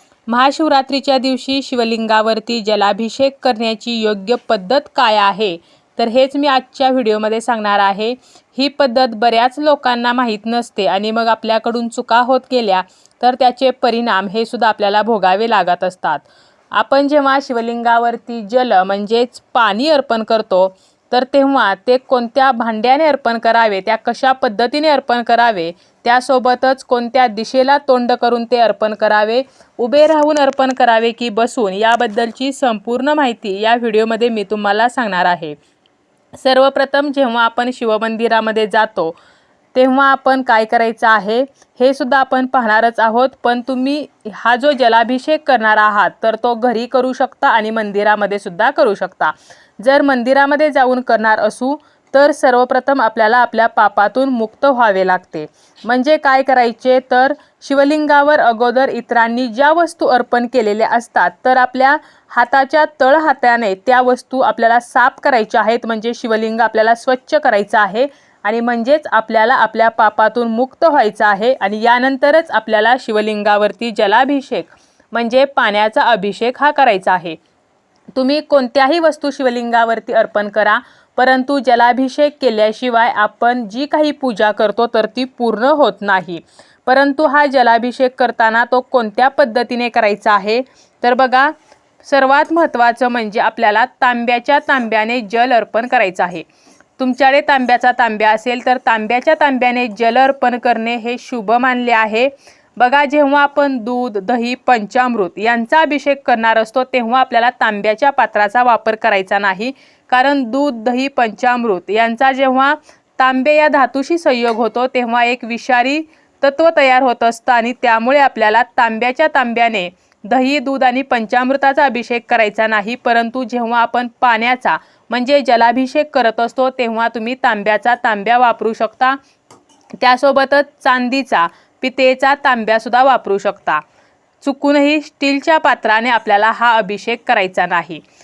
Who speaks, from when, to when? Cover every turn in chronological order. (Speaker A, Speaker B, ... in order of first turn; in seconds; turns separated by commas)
Speaker A: 0.3-35.5, Speaker A: 36.4-39.2, Speaker A: 39.7-77.4, Speaker A: 78.2-91.5, Speaker A: 92.0-96.4, Speaker A: 97.0-129.2, Speaker A: 130.0-133.8, Speaker A: 134.4-138.0